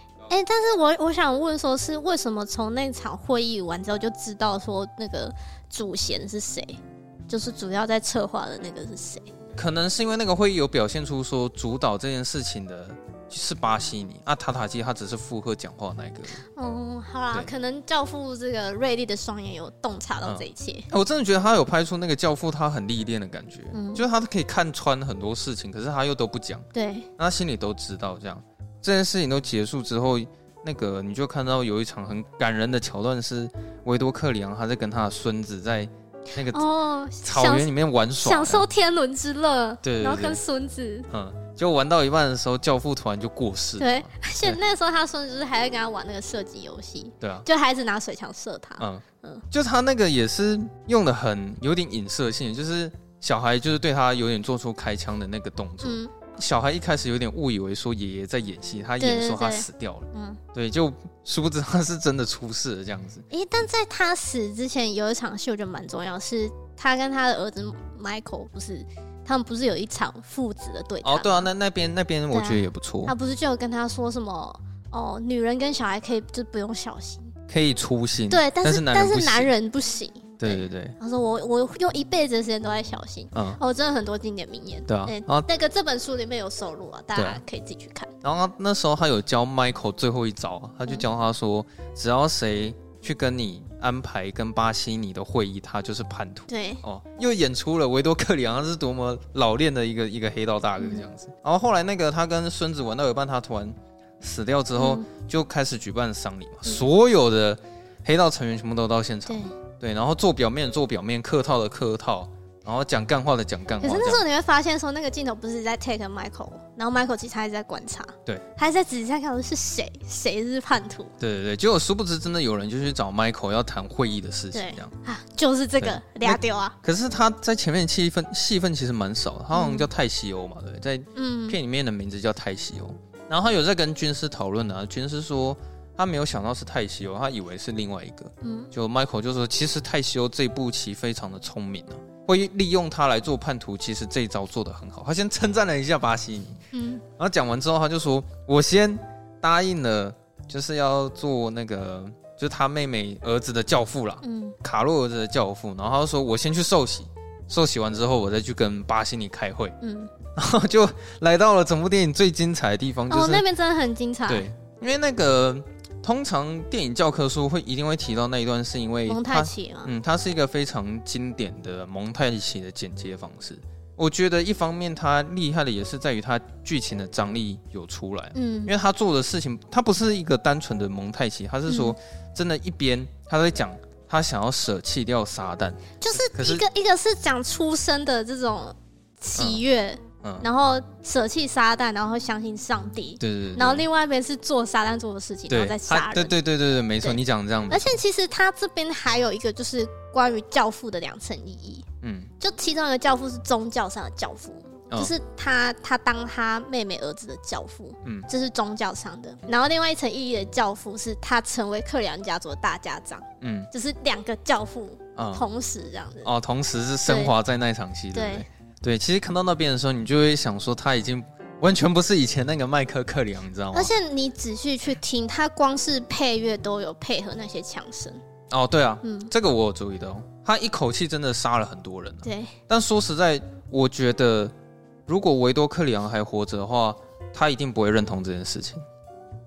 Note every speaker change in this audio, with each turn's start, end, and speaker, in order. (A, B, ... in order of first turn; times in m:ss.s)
0:00.3-0:09.3 A
0:09.6-0:16.4 B
0:16.6-0:20.9 A
0:20.2-0:26.7 B
0:23.7-0:24.0 A
0:26.7-0:27.1 A
0:27.2-0:36.7 B
0:36.5-0:41.1 A
0:37.2-0:38.7 B
0:39.8-0:40.4 B
0:41.1-0:44.6 B
0:43.8-0:49.4 A
0:47.2-0:47.4 B
0:48.8-1:03.2 B
0:55.8-0:56.1 A
0:59.0-1:00.4 A
1:03.3-1:11.5 A
1:11.0-1:13.1 B
1:12.3-1:17.3 A
1:17.5-1:19.5 B
1:18.3-1:28.1 A
1:20.4-1:20.9 B
1:23.3-1:23.6 B
1:24.9-1:25.5 B
1:27.1-1:27.4 B
1:28.2-1:54.2 B
1:36.5-1:36.8 A
1:40.8-1:41.0 A
1:44.8-1:45.0 A
1:49.3-1:49.5 A
1:53.8-2:01.1 A
2:01.2-2:04.9 B
2:04.5-2:06.8 A
2:05.8-2:26.6 B
2:09.5-2:09.9 A
2:11.1-2:11.6 A
2:18.4-2:18.7 A
2:26.7-2:27.0 A
2:27.2-2:39.8 B
2:34.2-2:34.5 A
2:39.8-2:40.1 A
2:40.4-2:43.4 B
2:43.1-2:44.5 A
2:44.3-3:06.6 B
2:49.1-2:49.9 A
2:58.3-2:58.7 A
3:01.7-3:02.0 A
3:06.0-3:16.3 A
3:09.4-3:09.6 B
3:10.2-3:10.5 B
3:13.2-3:13.8 B
3:15.5-3:18.0 B
3:17.0-3:21.8 A
3:22.0-3:22.3 B
3:22.4-3:36.3 A
3:33.4-3:33.7 B
3:35.2-3:35.4 B
3:36.2-3:43.9 B
3:37.0-3:37.3 A
3:38.1-3:38.4 A
3:43.7-3:48.2 A
3:48.5-3:54.5 B
3:49.0-3:49.3 A
3:52.2-3:52.6 A
3:55.1-3:58.8 B